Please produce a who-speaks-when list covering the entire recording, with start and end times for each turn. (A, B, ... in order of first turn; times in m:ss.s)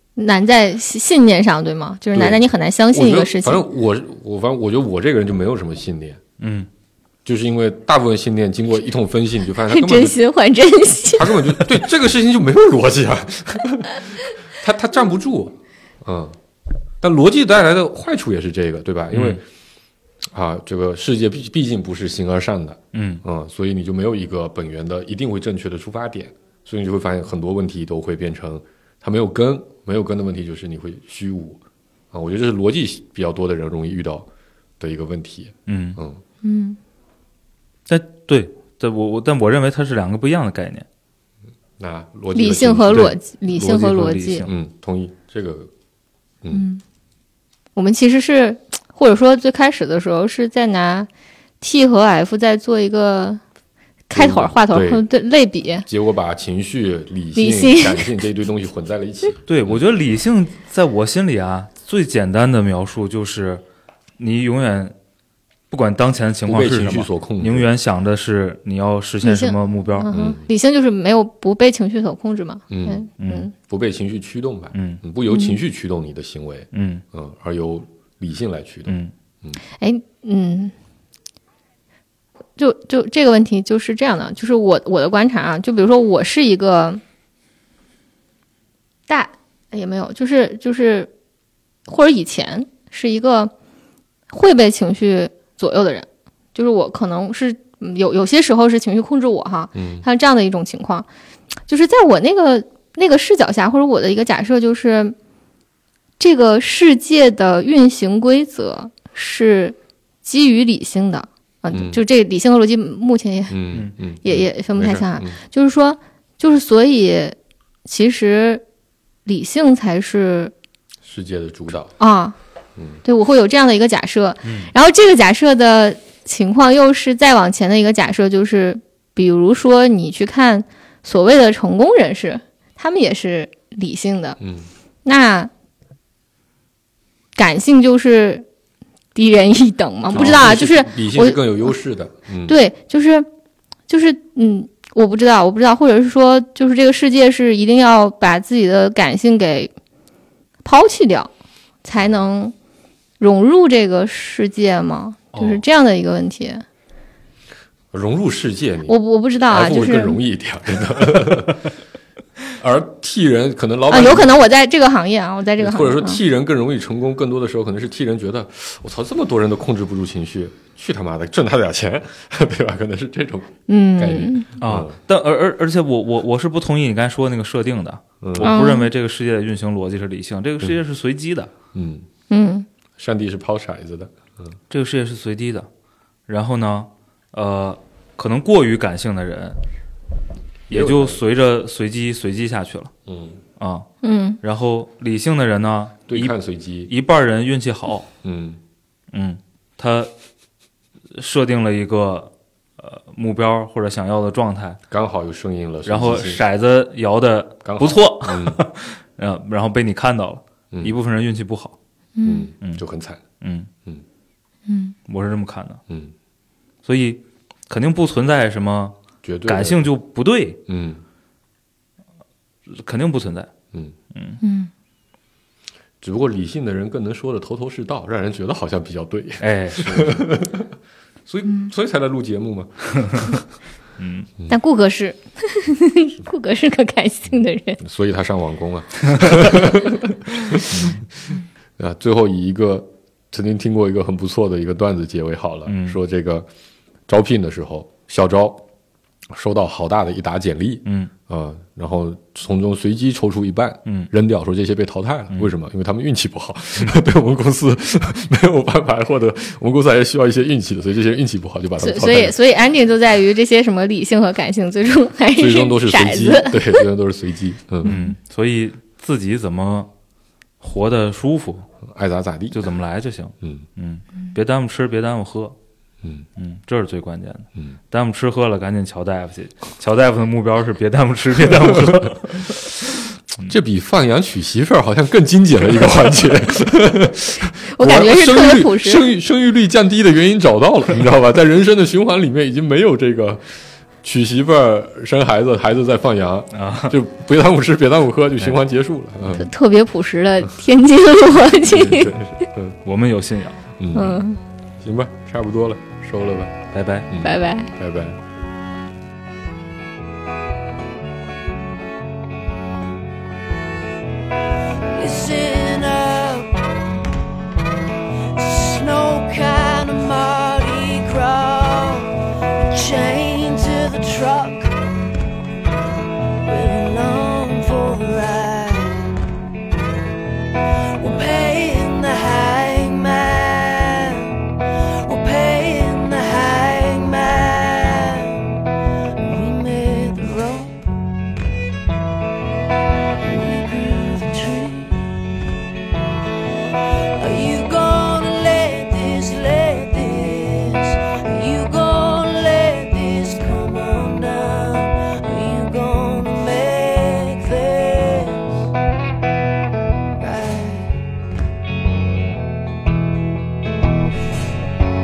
0:00.2-0:03.6 A
0:02.1-0:06.2 B
0:06.4-0:06.7 C
0:07.2-0:10.2 B
0:09.7-0:11.6 A
0:11.1-0:16.4 B
0:17.0-0:19.4 B
0:19.1-0:19.4 C
0:20.3-0:31.6 B
0:22.9-0:23.2 C
0:32.1-0:34.3 B
0:34.8-0:36.2 B
0:35.7-0:36.0 C
0:36.4-0:36.8 A
0:37.9-0:40.8 C
0:41.8-0:43.2 B
0:42.4-0:44.5 A
0:42.9-0:44.5 C
0:44.5-0:45.7 B
0:46.5-0:46.8 A
0:47.8-0:51.1 A
0:51.6-0:53.4 A
0:54.1-0:55.9 A
0:54.1-0:55.0 B
0:55.9-0:59.8 B
0:57.4-0:58.2 A
0:59.5-1:03.6 C
1:04.2-1:05.0 C
1:05.7-1:10.1 C
1:06.5-1:07.7 B
1:09.2-1:13.5 A
1:10.1-1:10.5 B
1:12.7-1:13.1 B
1:13.2-1:13.5 C
1:13.6-1:19.6 B
1:14.7-1:15.0 C
1:15.3-1:15.6 A
1:16.7-1:17.0 C
1:18.9-1:19.1 C
1:19.8-1:20.7 A
1:22.6-1:27.0 A
1:29.1-1:31.1 A
1:31.9-1:33.5 A
1:34.3-1:41.1 A
1:39.8-1:40.1 B
1:41.7-1:45.2 A
1:46.2-1:53.6 A
1:51.7-1:52.0 B
1:53.5-1:55.4 B
1:54.2-1:58.6 A
1:59.3-2:00.5 A
2:01.0-2:02.0 B
2:02.0-2:02.4 A
2:03.0-2:14.4 A
2:04.4-2:04.7 C
2:14.4-2:14.7 B
2:15.0-2:15.5 A
2:17.4-2:18.5 A
2:19.2-2:21.7 A
2:20.1-2:22.6 B
2:22.5-2:23.3 A
2:23.9-2:29.7 A
2:30.6-2:31.3 A
2:31.8-2:32.5 A
2:33.2-2:36.6 A
2:35.3-2:35.6 C
2:37.9-2:41.6 B
2:38.9-2:40.2 A
2:42.6-2:44.4 B
2:43.9-2:46.2 A
2:45.6-2:55.0 B
2:53.7-2:54.5 A
2:54.6-3:01.5 C
2:58.2-2:58.6 B
2:58.4-2:58.9 A
3:01.7-3:02.1 B
3:02.3-3:02.7 A
3:03.0-3:04.6 B
3:04.7-3:05.7 C
3:06.3-3:09.6 C
3:10.7-3:11.2 B
3:10.7-3:12.9 C
3:13.1-3:13.4 B
3:13.6-3:13.9 C
3:14.0-3:14.4 A
3:14.4-3:18.1 C
3:16.1-3:16.9 B
3:18.2-3:18.6 B
3:19.1-3:20.1 C
3:21.1-3:24.8 C
3:24.9-3:26.4 B
3:25.9-3:31.8 C
3:27.6-3:28.6 B
3:30.7-3:31.0 B
3:32.2-3:32.5 A
3:32.2-3:33.2 B
3:33.4-3:33.7 C
3:34.7-3:35.0 A
3:35.1-3:35.8 C
3:36.8-3:39.0 C
3:39.2-3:39.8 B
3:39.5-3:40.6 C
3:40.7-3:41.0 B
3:42.7-3:43.5 C
3:44.1-3:44.4 C
3:44.4-3:44.7 A
3:46.0-3:50.7 B
3:49.4-3:50.3 C
3:51.3-3:53.4 B
3:53.0-3:53.3 C
3:54.0-3:54.3 C
3:54.5-3:57.8 A
3:57.8-4:06.5 B
4:00.7-4:01.0 C
4:05.7-4:06.0 C
4:07.1-4:08.6 B
4:09.3-4:22.4 B
4:10.9-4:11.1 C
4:21.8-4:26.8 A
4:25.4-4:28.0 B
4:27.8-4:29.9 C
4:27.9-4:28.2 A
4:30.6-4:31.7 C
4:31.8-4:32.6 B
4:32.5-4:35.6 C
4:36.4-4:42.9 C
4:43.4-4:53.5 B
4:47.7-4:49.0 A
4:54.0-4:59.5 B
4:56.5-4:57.0 C
4:59.4-5:02.3 A
5:01.7-5:02.8 B
5:02.8-5:03.6 C
5:03.8-5:04.2 B
5:03.9-5:04.4 A
5:04.8-5:06.6 B
5:06.7-5:07.1 C
5:07.1-5:08.2 B
5:07.2-5:07.7 A
5:14.9-5:16.6 D
5:18.4-5:22.2 D
5:22.7-5:24.8 D
5:26.4-5:29.2 D
5:31.0-5:34.5 D
5:35.0-5:38.6 D
5:39.1-5:40.9 D
5:43.2-5:45.1 D
5:47.2-5:58.7 D
6:00.2-6:01.0 D